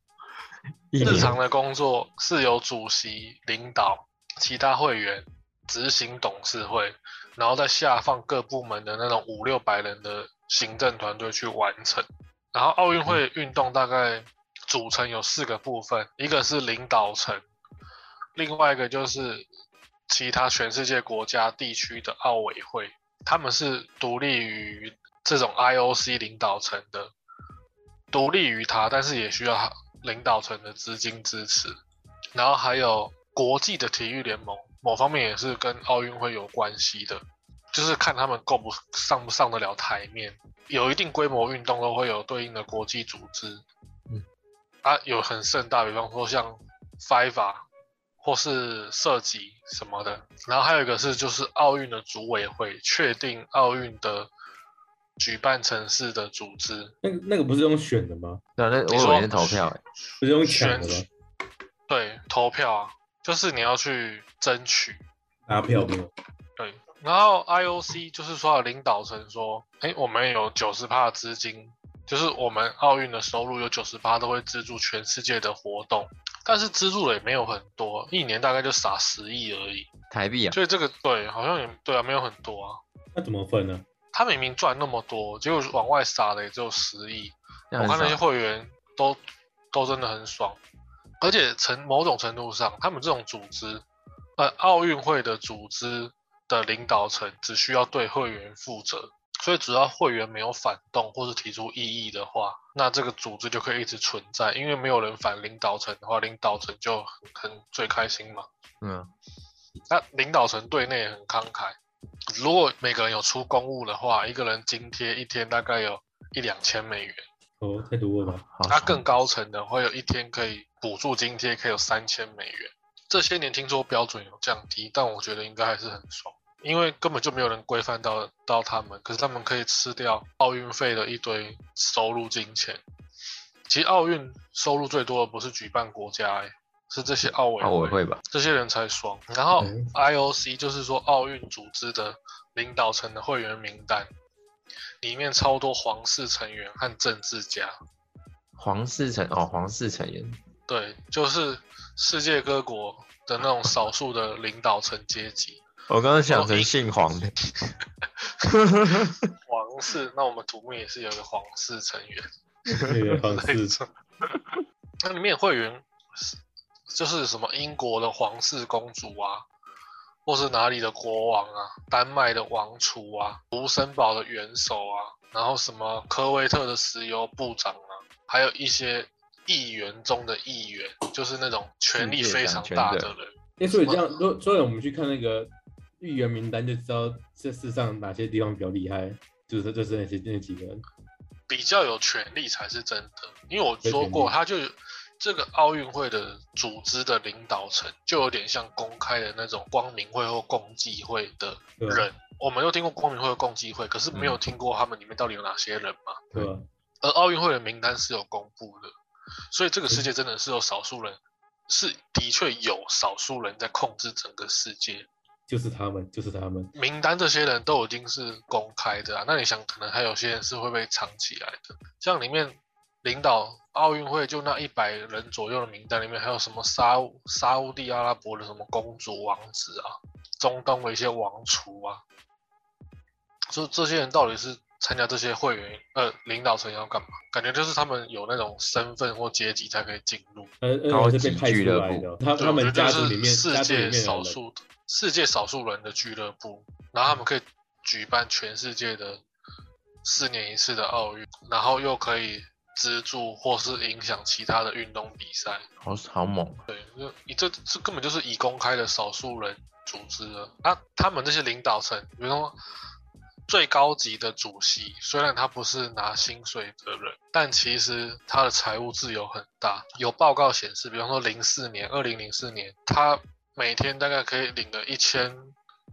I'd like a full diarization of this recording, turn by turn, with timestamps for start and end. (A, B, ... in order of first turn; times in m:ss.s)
0:00.9-0:01.4 A
0:01.0-0:01.4 B
0:01.0-0:17.4 C
0:18.4-0:19.5 C
0:20.1-0:27.1 C
0:28.1-0:31.8 C
0:32.4-0:43.6 C
0:44.8-0:47.7 C
0:48.2-0:54.3 C
0:55.2-0:56.9 C
0:57.0-0:58.4 B
0:58.6-0:59.8 A
0:58.9-0:59.7 C
1:00.2-1:01.1 B
1:00.4-1:01.1 C
1:01.9-1:05.0 C
1:05.5-1:06.1 B
1:06.6-1:19.9 C
1:20.1-1:20.6 A
1:20.5-1:22.8 C
1:23.2-1:23.8 B
1:24.1-1:29.2 C
1:27.7-1:28.2 A
1:29.7-1:30.6 C
1:31.2-1:33.8 C
1:34.4-1:48.5 C
1:48.8-1:49.1 A
1:49.9-1:51.8 C
1:52.3-1:57.2 C
1:57.6-1:58.4 B
1:58.5-1:59.0 A
1:58.7-2:12.8 C
2:13.7-2:24.1 C
2:17.6-2:18.2 A
2:25.0-2:27.7 C
2:28.6-2:30.4 A
2:30.7-2:35.6 C
2:35.9-2:37.3 A
2:36.3-2:36.8 C
2:38.5-2:39.3 A
2:39.5-2:42.3 C
2:42.8-2:43.8 B
2:43.3-2:43.9 C
2:44.3-2:44.6 A
2:45.0-2:46.4 C
2:46.9-2:49.5 C
2:50.2-3:04.2 C
3:02.0-3:03.1 A
3:03.6-3:10.8 B
3:11.5-3:26.2 C
3:13.8-3:14.4 B
3:21.8-3:22.1 B
3:24.1-3:24.4 A
3:26.3-3:26.6 B
3:27.0-3:28.9 C
3:29.5-3:35.1 C
3:35.5-3:36.7 B
3:36.8-3:52.0 C
3:53.5-4:00.5 C
4:00.6-4:04.4 B
4:00.9-4:02.1 A
4:02.4-4:09.2 C
4:10.0-4:15.7 C
4:15.8-4:16.6 A
4:16.7-4:22.6 C
4:23.5-4:35.5 C